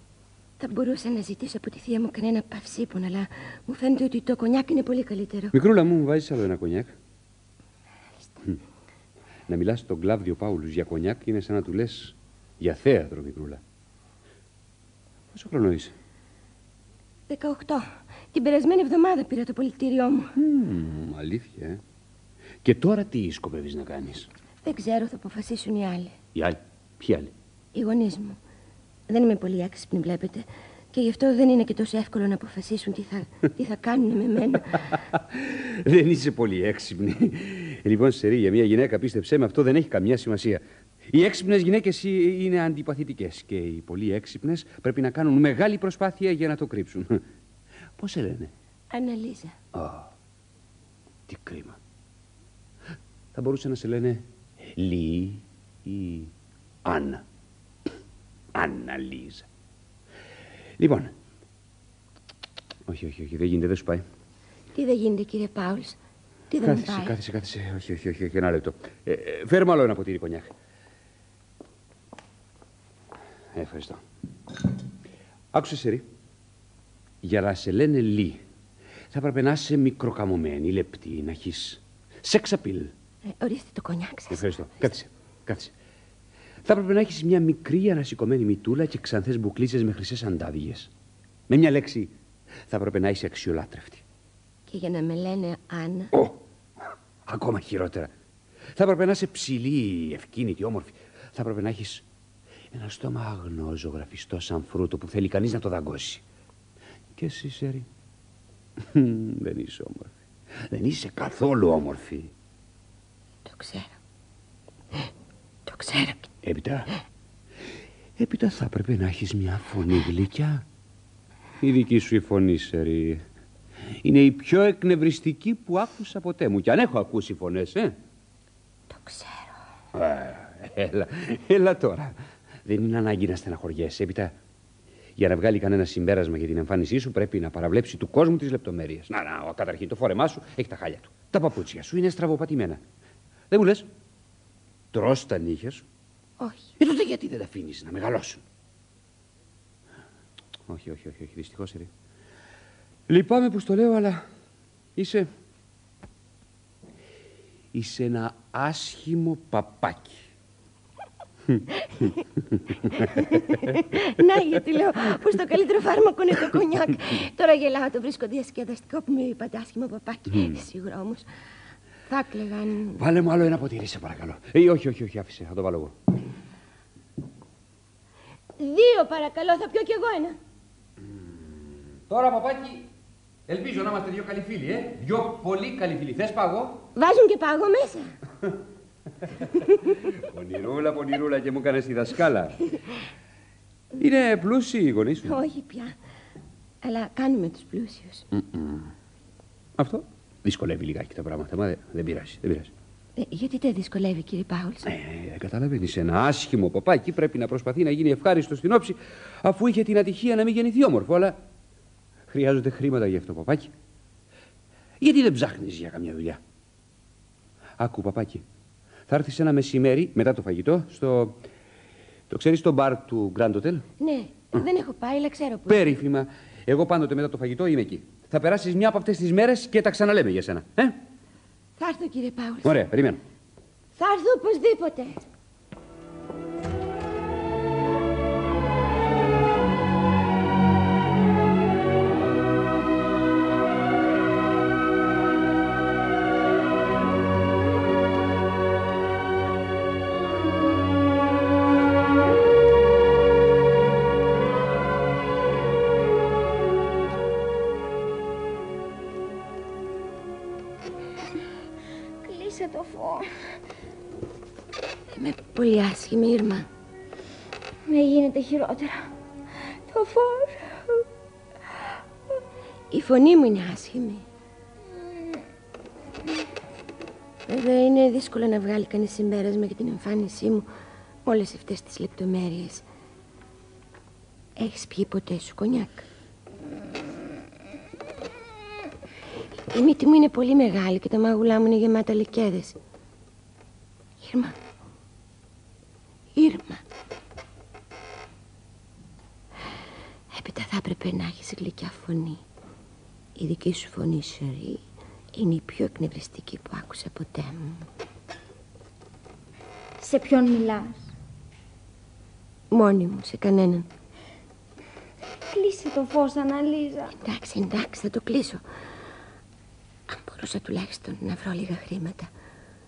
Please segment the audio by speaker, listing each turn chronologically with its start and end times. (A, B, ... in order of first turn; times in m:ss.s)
0:00.6-0:05.5 A
0:05.5-0:06.9 B
0:09.5-0:13.6 B
0:15.3-0:15.9 B
0:17.3-0:20.3 A
0:20.4-0:21.8 B
0:22.6-0:24.3 B
0:24.6-0:26.2 A
0:26.3-0:27.3 B
0:27.7-0:28.4 A
0:29.1-0:34.8 A
0:35.4-0:47.2 B
0:48.0-0:48.5 B
0:48.9-0:49.6 A
0:49.7-0:50.1 B
0:51.3-0:51.8 B
0:53.3-0:56.3 B
0:56.8-0:57.2 B
0:58.5-0:59.5 B
1:00.8-1:01.1 B
1:02.9-1:04.0 B
1:04.7-1:06.0 A
1:06.5-1:07.1 A
1:06.6-1:10.5 B
1:13.5-1:14.0 B
1:15.5-1:16.0 B
1:17.2-1:18.4 B
1:19.1-1:22.9 B
1:23.3-1:24.4 A
1:24.3-1:25.7 B
1:26.6-1:30.9 B
1:31.5-1:32.1 B
1:32.7-1:34.0 B
1:34.7-1:36.1 A
1:37.2-1:38.1 B
1:38.8-1:42.0 B
1:42.7-1:46.2 B
1:47.2-1:47.9 B
1:48.8-1:50.1 B
1:50.7-1:52.3 B
1:53.4-1:53.9 A
1:55.7-1:56.3 A
1:56.4-1:56.9 B
1:58.2-2:00.6 B
2:01.6-2:03.2 B
2:04.0-2:07.9 B
2:08.9-2:09.5 A
2:09.9-2:14.3 B
2:15.2-2:22.8 B
2:23.5-2:23.9 B
2:24.9-2:25.8 B
2:26.4-2:26.7 A
2:26.8-2:28.4 B
2:30.7-2:31.9 B
2:33.1-2:34.2 B
2:35.0-2:35.3 B
2:37.7-2:40.2 B
2:43.0-2:51.3 A
2:50.3-2:50.6 B
2:52.1-2:53.0 A
2:53.0-2:55.9 B
2:58.6-3:00.4 A
3:02.1-3:02.8 B
3:03.5-3:06.8 B
3:07.0-3:08.1 A
3:10.2-3:12.6 B
3:14.0-3:15.4 B
3:15.2-3:16.0 A
3:16.8-3:18.2 A
3:18.3-3:18.9 B
3:19.8-3:22.7 B
3:23.2-3:24.9 A
3:24.8-3:31.4 B
3:32.3-3:33.7 B
3:35.0-3:36.4 B
3:37.8-3:38.4 B
3:39.1-3:41.4 B
3:42.3-3:43.8 B
3:44.0-3:46.0 A
3:45.7-3:51.0 B
3:51.8-3:52.8 A
3:52.6-3:53.2 B
3:54.0-3:55.2 A
4:22.2-4:23.3 C
4:25.1-4:26.7 A
4:27.8-4:29.1 C
4:29.9-4:31.0 C
4:32.9-4:34.2 A
4:34.9-4:35.4 C
4:37.5-4:40.7 A
4:41.2-4:42.8 A
4:44.6-4:46.0 A
4:49.7-4:52.8 A
4:54.2-4:54.5 A
4:56.4-4:56.8 A
5:00.3-5:02.4 A
5:03.4-5:04.8 A
5:05.3-5:07.8 A
5:10.0-5:11.1 C
5:12.7-5:13.9 A
5:15.4-5:17.1 C
5:17.2-5:18.6 A
5:20.1-5:22.3 A